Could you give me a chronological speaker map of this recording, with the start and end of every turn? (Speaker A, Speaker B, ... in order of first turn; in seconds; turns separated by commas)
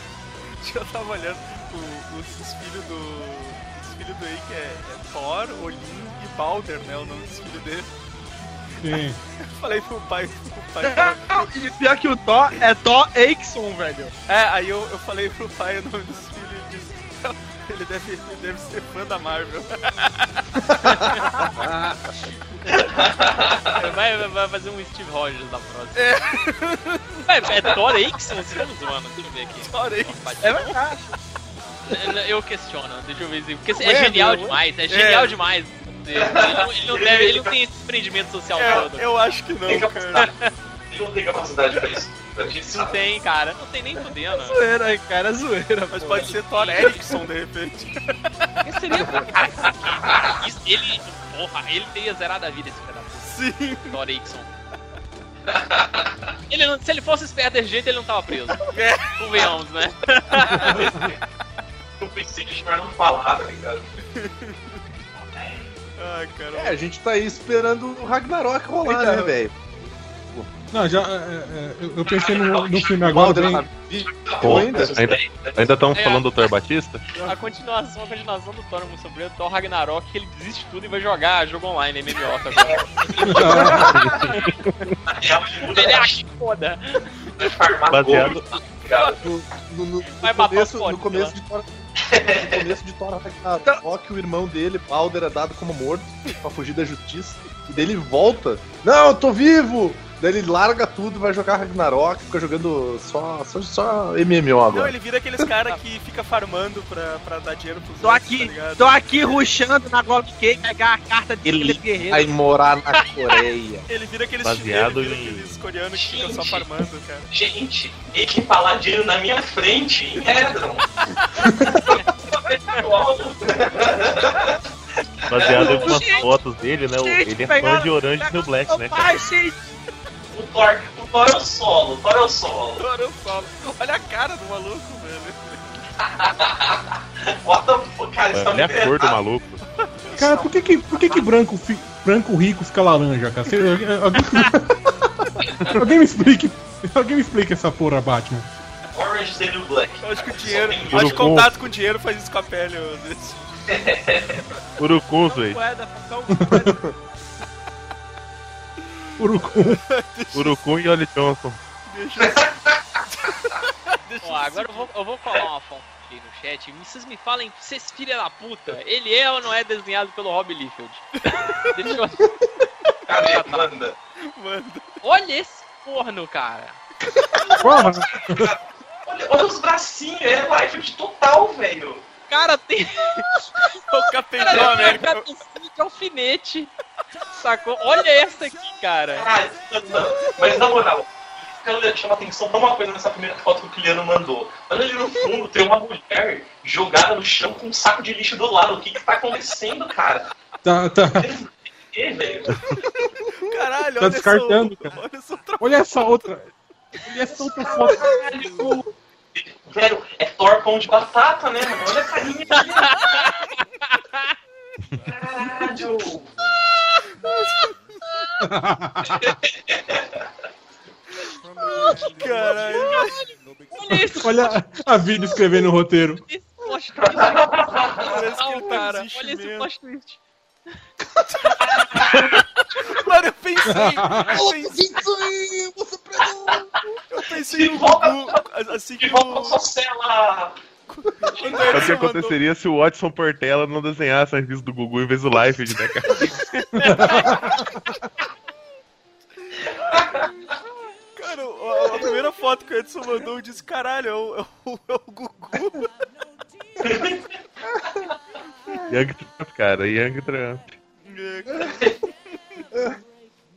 Speaker A: 0.5-7.9, Speaker B: 8.8-9.2, Speaker A: 9.4-11.5, Speaker C: 10.8-14.1, Speaker A: 14.3-20.6, Speaker D: 21.0-21.4, Speaker E: 21.6-21.9, Speaker F: 22.7-23.9, Speaker D: 23.7-26.1, Speaker A: 25.9-27.8, Speaker D: 27.2-30.6, Speaker A: 29.6-30.9, Speaker C: 30.4-31.1, Speaker D: 31.9-39.1, Speaker C: 33.8-34.6, Speaker A: 34.9-35.4, Speaker F: 36.1-37.5, Speaker A: 38.5-40.3, Speaker F: 39.6-40.3, Speaker D: 40.1-40.5, Speaker F: 40.9-43.0, Speaker D: 42.7-44.6, Speaker C: 44.3-46.3, Speaker A: 45.9-48.6, Speaker D: 46.0-47.1, Speaker D: 48.6-49.6, Speaker F: 49.2-50.4, Speaker D: 50.2-53.3, Speaker A: 53.2-54.0, Speaker D: 53.9-54.5, Speaker F: 55.5-56.1, Speaker D: 56.5-60.9, Speaker A: 58.6-59.1, Speaker F: 60.8-61.1, Speaker F: 62.0-63.8, Speaker A: 64.2-64.6, Speaker F: 65.2-65.6, Speaker A: 66.0-66.8, Speaker E: 66.5-69.6, Speaker C: 68.8-69.3, Speaker B: 70.7-73.7, Speaker F: 72.0-73.1, Speaker E: 73.1-75.0, Speaker F: 74.0-75.7, Speaker G: 74.4-77.2, Speaker D: 75.9-76.2, Speaker D: 77.2-84.5, Speaker F: 82.6-84.4, Speaker B: 83.2-84.0, Speaker G: 84.0-84.9, Speaker F: 85.1-86.2, Speaker D: 85.7-87.1, Speaker F: 87.4-89.2, Speaker G: 87.9-88.5, Speaker E: 89.2-91.7, Speaker D: 90.1-91.3, Speaker F: 92.1-92.7, Speaker E: 92.2-105.5, Speaker A: 104.7-109.4, Speaker C: 108.0-112.3, Speaker E: 111.5-113.8, Speaker A: 113.9-117.3, Speaker G: 114.4-115.6, Speaker F: 115.9-116.7, Speaker F: 117.3-120.8, Speaker F: 121.5-124.5, Speaker G: 125.3-129.2, Speaker F: 125.3-126.0, Speaker C: 125.4-126.3, Speaker D: 125.6-126.3, Speaker C: 126.9-129.6, Speaker F: 130.3-132.8, Speaker A: 132.8-135.7, Speaker F: 136.0-139.2, Speaker G: 138.3-139.6, Speaker F: 140.0-141.3, Speaker B: 140.2-144.7, Speaker F: 145.4-145.8, Speaker B: 145.7-148.4, Speaker F: 148.9-151.3, Speaker A: 150.0-153.4, Speaker G: 150.9-151.5, Speaker F: 153.7-154.6, Speaker G: 154.8-155.6, Speaker C: 155.2-156.9, Speaker B: 156.3-156.8, Speaker B: 159.2-159.8, Speaker A: 159.4-160.6, Speaker G: 160.3-161.6, Speaker A: 161.9-162.5, Speaker F: 162.2-163.0, Speaker A: 163.1-164.9, Speaker D: 164.2-172.3, Speaker A: 171.3-171.9, Speaker F: 173.1-173.9, Speaker D: 173.1-173.7, Speaker A: 174.3-174.8, Speaker D: 175.0-176.8, Speaker F: 177.3-182.0, Speaker B: 177.6-178.5, Speaker D: 182.3-183.6, Speaker A: 183.9-185.2, Speaker D: 184.4-186.7, Speaker D: 187.4-189.3, Speaker F: 189.1-200.4, Speaker B: 200.6-201.3, Speaker F: 201.1-202.6, Speaker A: 203.4-206.2, Speaker B: 204.0-204.9, Speaker B: 205.6-208.2, Speaker F: 207.2-213.3, Speaker D: 212.6-214.3, Speaker F: 215.1-216.3, Speaker A: 217.2-217.7, Speaker B: 218.4-219.3, Speaker F: 219.0-220.2, Speaker A: 222.0-223.3, Speaker D: 222.1-223.1, Speaker D: 223.7-224.6, Speaker B: 223.9-226.2, Speaker D: 226.2-227.5, Speaker F: 227.0-228.2, Speaker A: 228.0-229.7, Speaker D: 228.1-230.2, Speaker A: 231.3-234.9, Speaker D: 231.9-232.4, Speaker B: 233.7-234.4, Speaker E: 234.2-236.7, Speaker A: 237.1-239.6, Speaker F: 237.4-238.4, Speaker F: 239.0-240.6, Speaker A: 240.9-242.4, Speaker F: 241.3-242.0, Speaker G: 241.7-246.2, Speaker D: 246.5-247.3, Speaker B: 246.8-247.8, Speaker F: 246.9-247.6, Speaker F: 249.9-250.3, Speaker A: 251.2-255.9, Speaker F: 256.8-257.2, Speaker G: 258.9-260.8, Speaker A: 261.0-261.9, Speaker F: 261.7-262.0